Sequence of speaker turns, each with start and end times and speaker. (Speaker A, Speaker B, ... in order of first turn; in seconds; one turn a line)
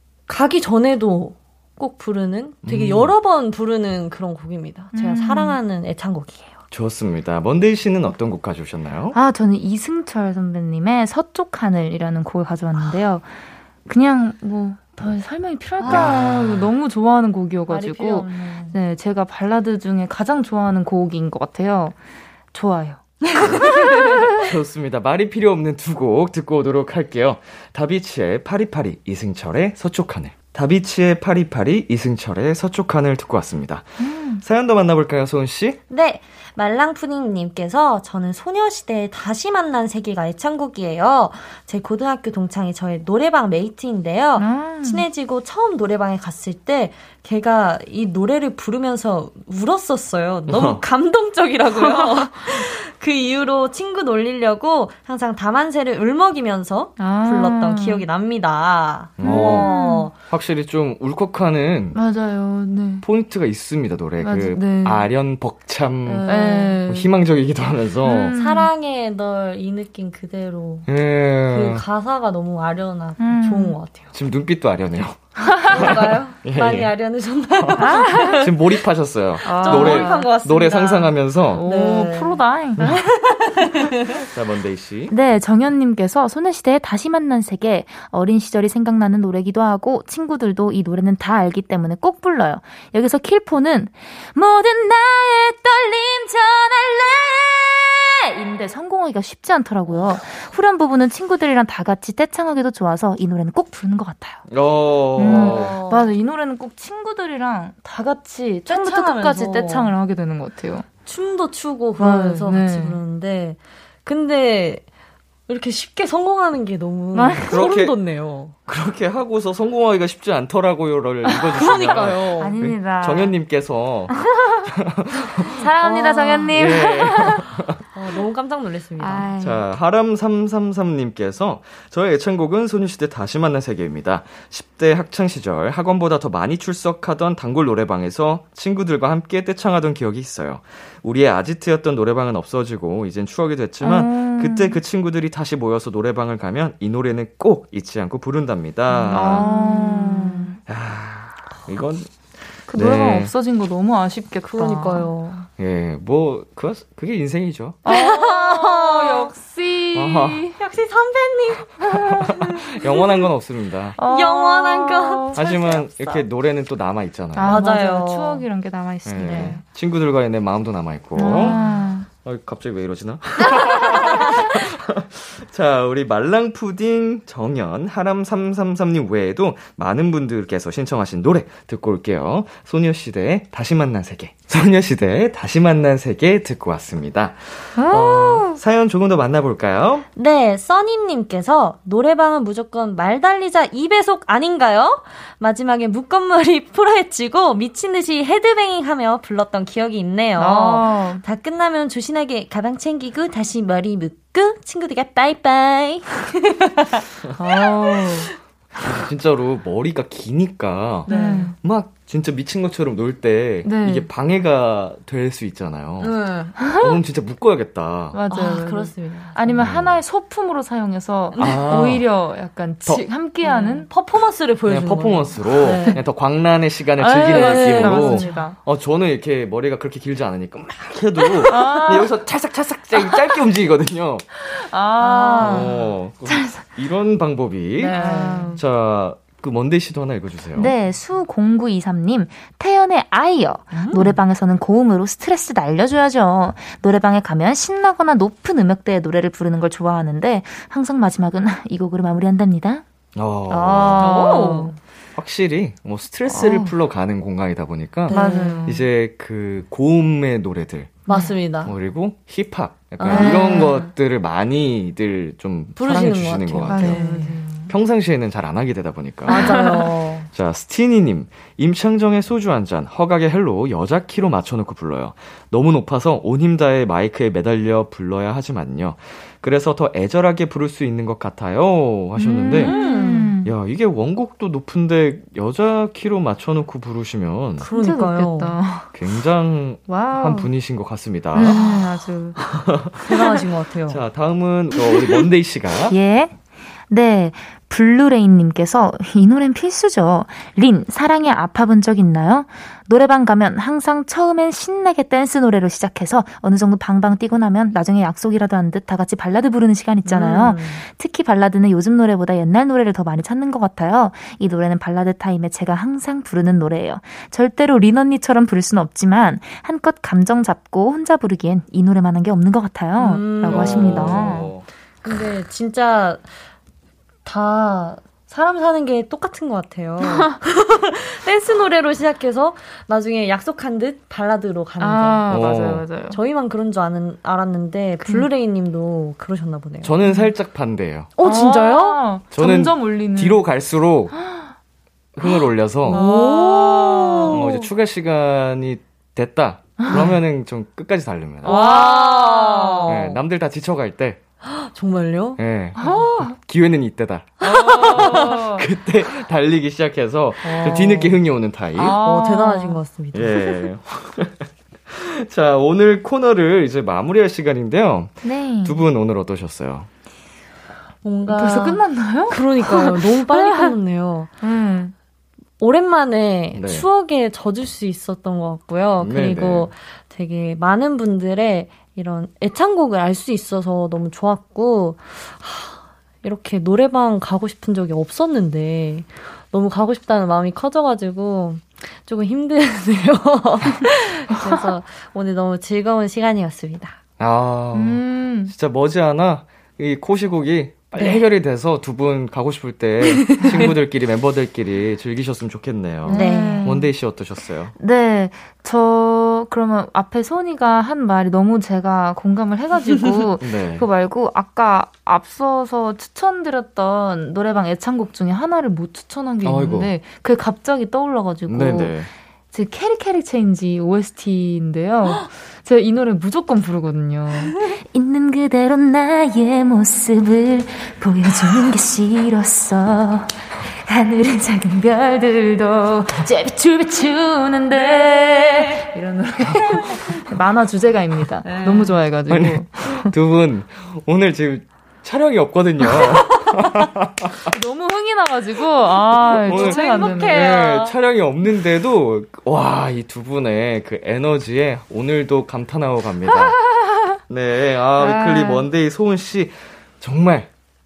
Speaker A: 0.3-6.6
Speaker B: 2.6-3.1
Speaker C: 4.9-5.6
Speaker B: 6.7-9.2
Speaker C: 9.1-13.3
Speaker C: 13.9-22.0
Speaker A: 15.8-16.1
Speaker B: 15.8-16.7
Speaker A: 17.7-18.8
Speaker C: 22.5-23.2
Speaker A: 23.7-24.1
Speaker B: 24.3-35.8
Speaker C: 34.0-34.4
Speaker A: 35.9-60.1
Speaker C: 44.4-45.0
Speaker B: 50.5-50.8
Speaker C: 51.9-52.3
Speaker C: 57.0-58.0
Speaker B: 59.2-59.7
Speaker C: 59.2-60.1
Speaker B: 60.3-62.0
Speaker C: 61.9-63.0
Speaker B: 63.0-68.3
Speaker C: 64.2-65.1
Speaker A: 66.0-66.8
Speaker C: 66.3-67.2
Speaker C: 68.0-68.7
Speaker A: 68.3-70.9
Speaker B: 70.9-71.8
Speaker A: 71.5-74.1
Speaker C: 73.2-73.8
Speaker B: 74.1-76.9
Speaker C: 75.4-75.7
Speaker A: 75.7-78.5
Speaker B: 77.6-81.7
Speaker C: 77.8-78.5
Speaker C: 79.5-80.3
Speaker A: 79.5-84.2
Speaker C: 81.6-82.9
Speaker B: 84.2-85.2
Speaker C: 85.1-104.5
Speaker B: 104.5-105.8
Speaker C: 105.2-110.9
Speaker A: 105.2-106.1
Speaker A: 108.7-109.9
Speaker A: 111.1-114.8
Speaker C: 112.0-113.0
Speaker A: 115.5-118.5
Speaker C: 117.1-117.7
Speaker B: 117.5-118.0
Speaker B: 118.7-125.5
Speaker A: 121.5-122.6
Speaker C: 122.4-123.4
Speaker C: 124.1-124.7
Speaker C: 125.6-127.5
Speaker A: 125.8-126.6
Speaker B: 126.5-127.8
Speaker A: 127.9-129.3
Speaker C: 129.0-129.7
Speaker B: 129.4-149.5
Speaker C: 143.8-144.8
Speaker C: 149.1-150.6
Speaker A: 149.1-150.5
Speaker B: 150.7-152.2
Speaker B: 152.7-153.3
Speaker C: 152.7-155.1
Speaker A: 154.5-155.5
Speaker B: 155.6-157.8
Speaker C: 157.8-160.6
Speaker A: 157.9-159.3
Speaker B: 159.9-160.5
Speaker A: 160.6-162.5
Speaker B: 161.9-164.0
Speaker C: 164.0-165.4
Speaker A: 164.0-166.2
Speaker B: 165.3-167.6
Speaker C: 167.4-169.6
Speaker A: 167.4-168.4
Speaker B: 169.0-171.6
Speaker A: 169.2-169.6
Speaker C: 171.2-172.1
Speaker A: 171.2-171.8
Speaker B: 172.2-190.1
Speaker A: 173.8-174.4
Speaker C: 187.8-188.6
Speaker A: 190.2-208.2
Speaker C: 200.4-201.2
Speaker C: 207.4-208.3
Speaker B: 208.8-218.2
Speaker A: 211.1-211.5
Speaker C: 211.1-211.6
Speaker C: 213.7-214.1
Speaker A: 216.0-216.6
Speaker C: 216.7-216.9
Speaker C: 218.1-223.9
Speaker A: 218.3-219.7
Speaker B: 219.6-220.0
Speaker A: 221.3-221.9
Speaker B: 221.4-222.1
Speaker A: 223.4-226.0
Speaker B: 224.7-234.3
Speaker C: 227.0-228.6
Speaker A: 227.3-228.5
Speaker C: 231.2-232.1
Speaker C: 234.5-236.5
Speaker A: 235.0-235.7
Speaker B: 235.4-240.8
Speaker A: 237.8-238.6
Speaker C: 238.0-238.6
Speaker C: 240.6-252.8
Speaker A: 243.7-244.2
Speaker B: 253.2-254.3
Speaker C: 253.5-254.7
Speaker A: 254.0-254.8
Speaker B: 255.2-261.0
Speaker C: 256.3-256.7
Speaker A: 258.1-258.6
Speaker C: 258.1-258.9
Speaker A: 261.1-261.7
Speaker C: 261.1-261.3
Speaker B: 261.6-269.8
Speaker A: 263.0-263.6
Speaker C: 263.1-263.9
Speaker A: 265.8-267.4
Speaker C: 266.7-267.7
Speaker A: 269.3-270.3
Speaker C: 269.4-269.8
Speaker B: 270.3-282.8
Speaker C: 282.2-283.5
Speaker A: 282.6-283.4
Speaker B: 283.4-287.7
Speaker A: 287.7-288.6
Speaker C: 287.7-288.9
Speaker B: 288.9-291.6
Speaker C: 289.9-290.5
Speaker C: 291.4-292.4
Speaker A: 291.4-291.9
Speaker B: 292.4-293.2
Speaker A: 293.0-294.0
Speaker B: 293.9-296.0
Speaker C: 295.9-296.3
Speaker C: 296.9-324.5
Speaker A: 310.1-310.8
Speaker A: 323.0-324.4
Speaker B: 323.4-324.7
Speaker A: 325.0-326.3
Speaker A: 327.2-335.5
Speaker C: 334.8-336.2
Speaker B: 335.3-335.9
Speaker A: 336.1-340.0
Speaker B: 339.8-341.1
Speaker A: 341.2-342.1
Speaker C: 341.2-343.4
Speaker B: 342.3-344.2
Speaker B: 345.1-346.0
Speaker A: 345.9-347.7
Speaker C: 345.9-347.1
Speaker B: 347.3-351.7
Speaker A: 351.4-353.2
Speaker C: 351.5-352.9
Speaker B: 352.9-354.2
Speaker A: 354.4-355.4
Speaker B: 355.4-362.0
Speaker C: 355.8-356.3
Speaker C: 357.4-358.6
Speaker A: 357.4-358.2
Speaker A: 360.4-361.2
Speaker C: 361.8-362.8
Speaker A: 361.8-363.6
Speaker B: 363.1-369.9
Speaker C: 368.2-368.8
Speaker A: 371.0-374.3
Speaker C: 371.3-373.7
Speaker C: 374.4-374.9
Speaker A: 375.6-397.0
Speaker B: 376.5-376.9
Speaker B: 379.0-379.7
Speaker B: 397.2-407.7
Speaker C: 397.7-398.5
Speaker A: 403.0-403.7
Speaker C: 406.1-406.9
Speaker A: 406.1-406.7
Speaker C: 407.8-443.1
Speaker B: 413.4-413.9
Speaker B: 419.4-419.9
Speaker B: 421.5-422.1
Speaker A: 437.8-438.9
Speaker A: 441.4-442.0
Speaker B: 442.3-447.6
Speaker C: 447.5-450.5
Speaker B: 449.2-456.6
Speaker A: 449.4-451.0
Speaker B: 457.3-460.5
Speaker C: 458.0-458.7